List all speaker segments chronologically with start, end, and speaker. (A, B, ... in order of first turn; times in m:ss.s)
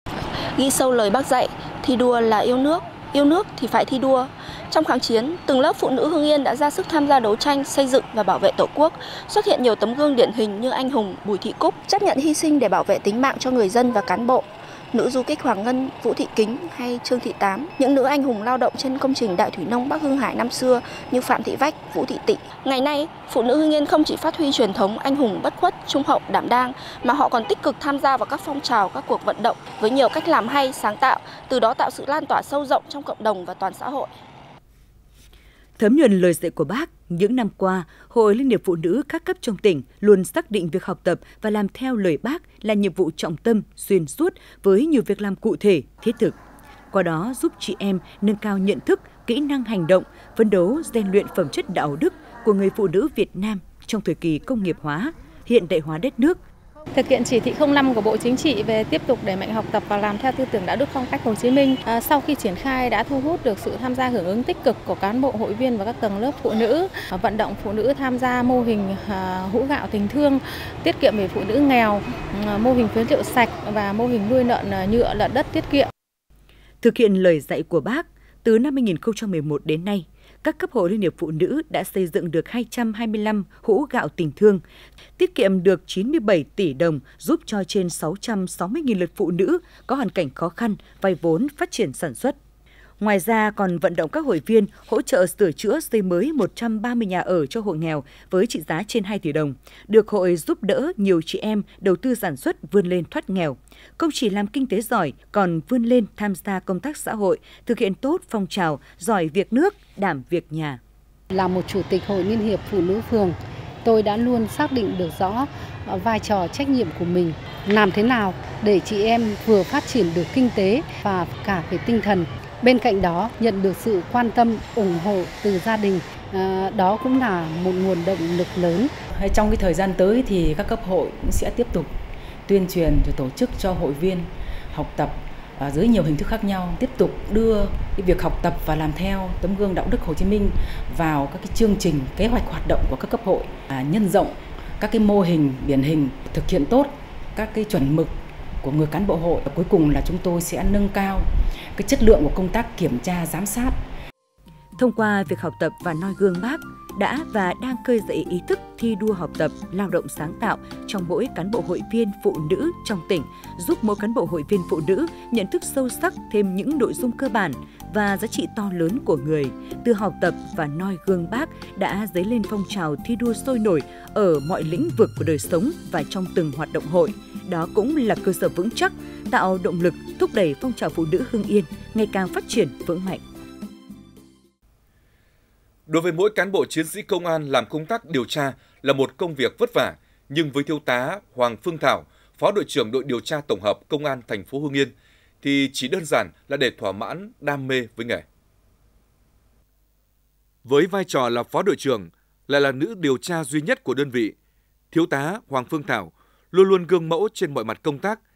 0:00.5-0:34.1 A
0:35.8-0:46.4 B
0:46.9-0:56.4 B
0:56.9-1:15.9 C
1:16.8-1:24.6 B
1:25.2-1:32.4 B
1:33.0-1:50.8 B
1:51.3-2:09.0 D
2:09.1-2:11.9 E
2:12.4-2:33.8 E
2:34.8-3:03.2 B
3:05.9-3:18.2 F
3:20.6-3:24.3 F
3:24.9-3:28.2 F